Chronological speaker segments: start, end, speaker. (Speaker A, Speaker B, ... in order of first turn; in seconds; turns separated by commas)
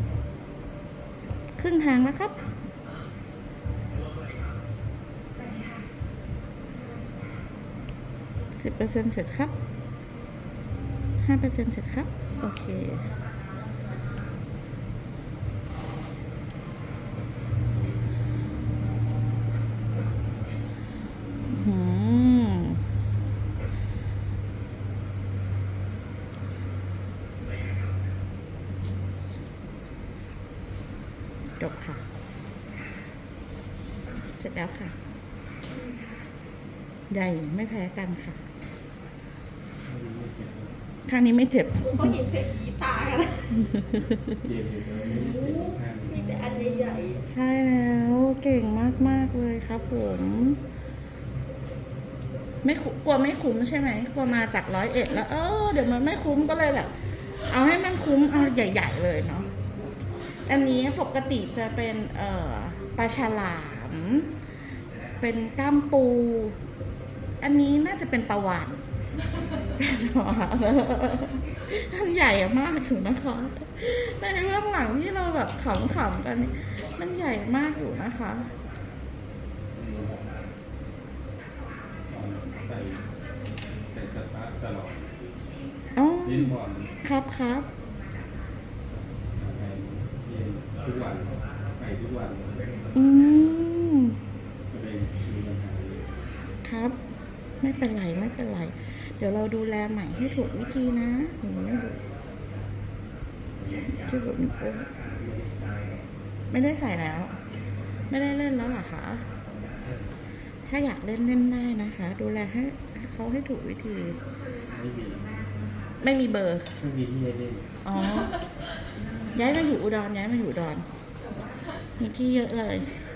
Speaker A: 1.6-2.4, Speaker A: 8.6-9.5, Speaker A: 11.2-13.1, Speaker A: 21.5-22.8, Speaker A: 31.6-32.0, Speaker A: 34.3-35.0, Speaker A: 37.1-38.4, Speaker B: 39.8-40.8, Speaker A: 41.1-42.2, Speaker C: 41.8-43.6, Speaker A: 43.7-44.3, Speaker B: 44.3-46.2, Speaker C: 45.4-47.2, Speaker A: 46.2-50.6, Speaker A: 52.6-56.9, Speaker A: 57.5-59.5, Speaker A: 60.5-64.3, Speaker A: 65.2-66.6, Speaker A: 67.4-68.8, Speaker A: 69.8-78.5, Speaker B: 79.8-80.4, Speaker B: 82.1-83.1, Speaker B: 83.9-85.2, Speaker A: 86.0-87.7, Speaker B: 86.2-86.9, Speaker B: 89.3-92.8, Speaker A: 92.9-94.2, Speaker B: 94.7-96.1, Speaker A: 96.6-97.0, Speaker A: 97.6-102.0, Speaker A: 103.8-104.9, Speaker B: 105.2-106.1, Speaker A: 106.5-107.4, Speaker A: 108.1-109.2, Speaker A: 110.7-114.2, Speaker B: 114.7-115.3, Speaker A: 116.0-116.8, Speaker B: 116.8-117.7, Speaker A: 117.8-118.4, Speaker A: 119.3-120.8, Speaker A: 122.0-122.9